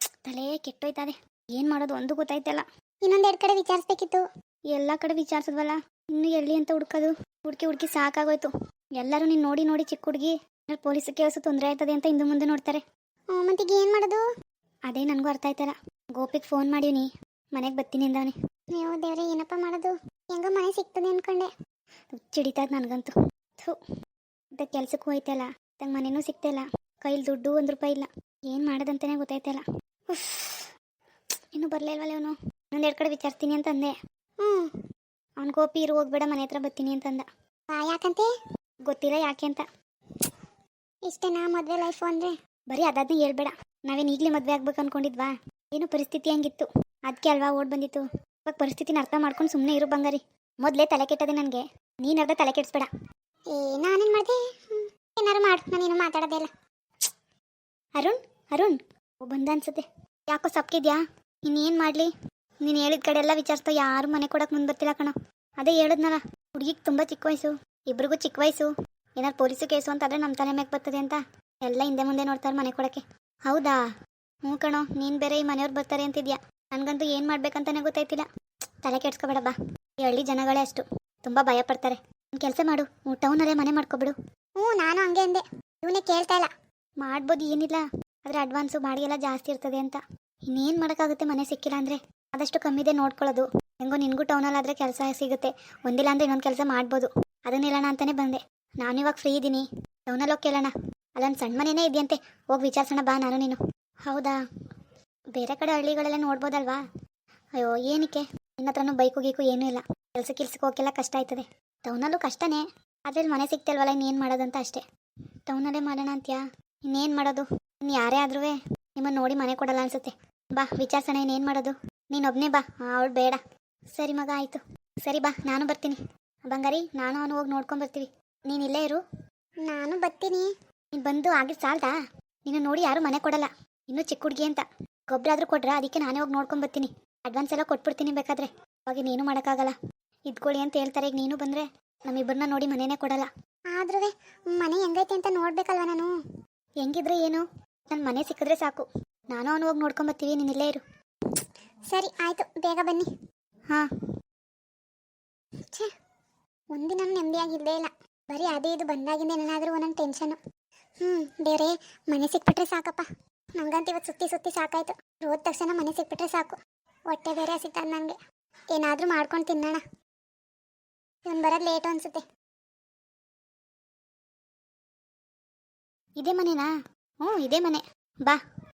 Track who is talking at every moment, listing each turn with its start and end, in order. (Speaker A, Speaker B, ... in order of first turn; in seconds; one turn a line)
Speaker A: 0.3-2.6
Speaker B: 3.0-4.2
Speaker A: 4.7-12.8
Speaker B: 13.3-14.2
Speaker A: 14.9-18.3
Speaker B: 18.8-21.5
Speaker A: 22.1-23.8
Speaker A: 24.6-30.7
Speaker A: 31.6-33.9
Speaker A: 35.4-37.3
Speaker B: 37.7-38.3
Speaker A: 38.9-39.6
Speaker B: 41.1-42.3
Speaker A: 42.7-52.9
Speaker B: 53.5-56.5
Speaker A: 58.0-62.1
Speaker A: 62.6-73.8
Speaker A: 74.5-78.2
Speaker A: 78.8-84.2
Speaker B: 84.6-86.5
Speaker A: 87.0-104.4
Speaker A: 105.3-106.8
Speaker A: 107.6-114.8
Speaker A: 115.5-123.4
Speaker A: 124.0-126.0
Speaker A: 126.5-129.0
Speaker B: 129.7-130.5
Speaker A: 130.9-131.9
Speaker A: 132.5-139.8
Speaker A: 140.3-143.3
Speaker B: 143.8-146.1
Speaker A: 146.8-150.8
Speaker B: 151.9-153.1
Speaker B: 156.7-160.4
Speaker B: 161.0-163.1
Speaker B: 163.6-166.6
Speaker B: 167.1-168.2
Speaker B: 168.8-169.8
Speaker B: 171.3-172.2
Speaker A: 176.2-176.7
Speaker A: 177.2-178.4